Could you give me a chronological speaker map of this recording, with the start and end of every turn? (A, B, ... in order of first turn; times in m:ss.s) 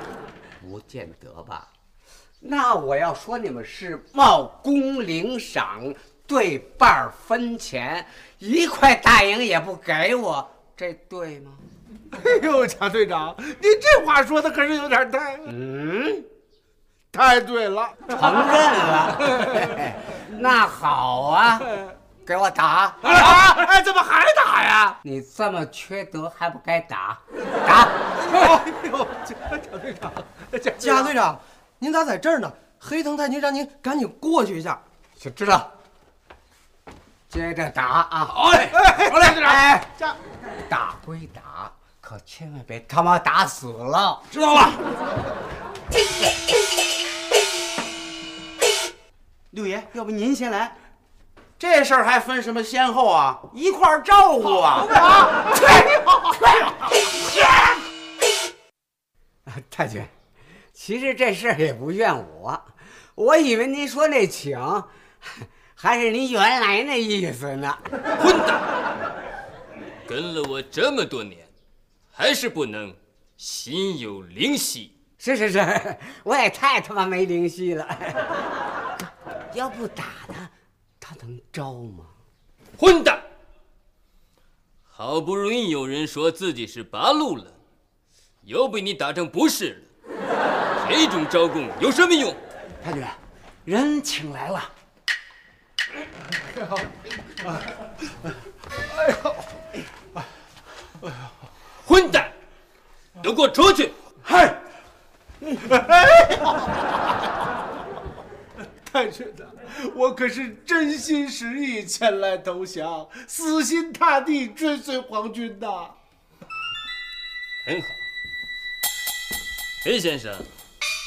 0:00.6-0:01.7 A
0:02.4-0:11.6 A
0:12.1-0:15.4 B
0:15.4-0:16.3 A
0:17.1-0:18.0 B
0:18.1-0:21.7 A
0:22.2-0:23.2 A
0:23.1-0:24.9 B
0:25.0-0:28.0 A
0:28.4-0:31.1 B
0:30.9-0:34.8 C
0:35.2-0:35.7 A
0:37.3-0:39.9 A
0:38.6-0:39.6 B
0:40.7-0:44.2 A
0:49.5-0:50.7 D
0:51.6-0:54.8 D
0:59.5-1:00.1 A
1:00.7-1:07.8 A
1:08.2-1:08.7 E
1:10.0-1:11.5 E
1:12.1-1:14.9 E
1:15.2-1:18.3 A
1:19.5-1:22.1 A
1:22.8-1:23.2 E
1:24.9-1:27.6 E
1:28.4-1:29.9 E
1:30.8-1:32.4 E
1:32.8-1:34.7 D
1:41.8-1:42.3 E
1:43.2-1:44.0 E
1:44.3-1:44.6 B
1:45.6-1:46.5 B
1:48.8-1:55.9 B
1:57.6-1:58.0 E
1:59.8-2:00.5 E